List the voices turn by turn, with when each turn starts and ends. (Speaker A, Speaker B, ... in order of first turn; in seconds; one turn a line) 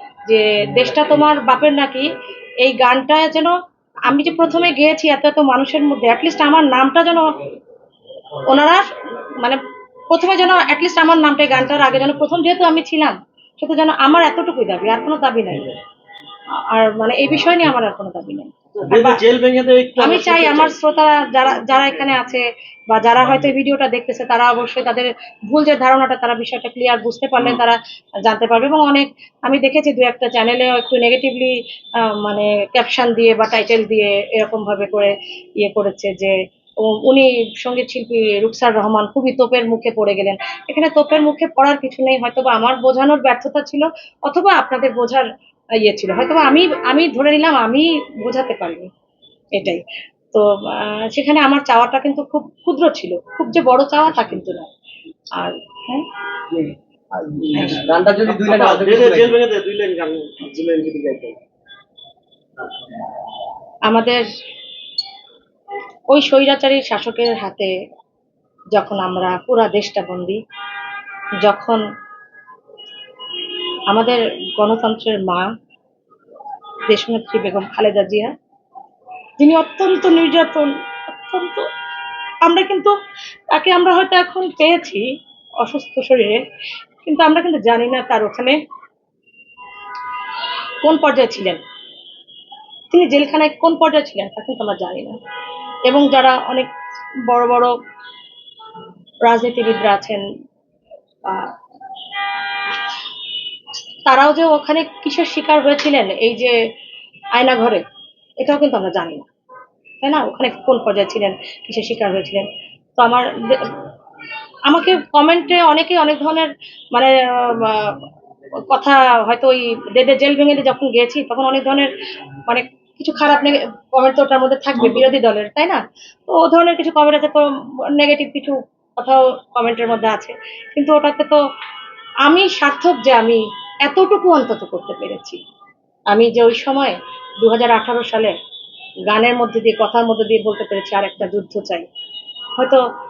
Speaker A: 0.3-3.5
Speaker A: 4.1-7.3
Speaker A: 8.5-8.9
Speaker A: 9.4-15.7
Speaker A: 16.7-19.2
Speaker B: 18.8-20.8
Speaker A: 20.0-45.3
Speaker A: 45.8-48.9
Speaker A: 49.5-54.7
Speaker A: 55.4-56.1
Speaker C: 56.5-59.4
Speaker A: 57.5-57.8
Speaker B: 58.2-61.4
Speaker A: 63.9-64.3
Speaker A: 66.1-67.7
Speaker A: 68.7-70.4
Speaker A: 71.4-71.8
Speaker A: 73.9-75.5
Speaker A: 76.9-78.3
Speaker A: 79.4-81.7
Speaker A: 82.4-82.9
Speaker A: 83.5-85.0
Speaker A: 85.6-86.4
Speaker A: 87.0-88.6
Speaker A: 90.8-91.6
Speaker A: 92.9-95.2
Speaker A: 95.9-96.7
Speaker A: 97.3-97.7
Speaker A: 99.2-100.2
Speaker A: 101.3-101.5
Speaker A: 104.1-106.5
Speaker A: 107.3-107.8
Speaker A: 108.4-109.3
Speaker A: 110.0-113.8
Speaker A: 114.7-118.0
Speaker A: 118.7-121.9
Speaker A: 122.5-131.4
Speaker A: 132.2-135.4
Speaker A: 136.1-138.3
Speaker A: 139.1-141.9
Speaker A: 142.6-142.8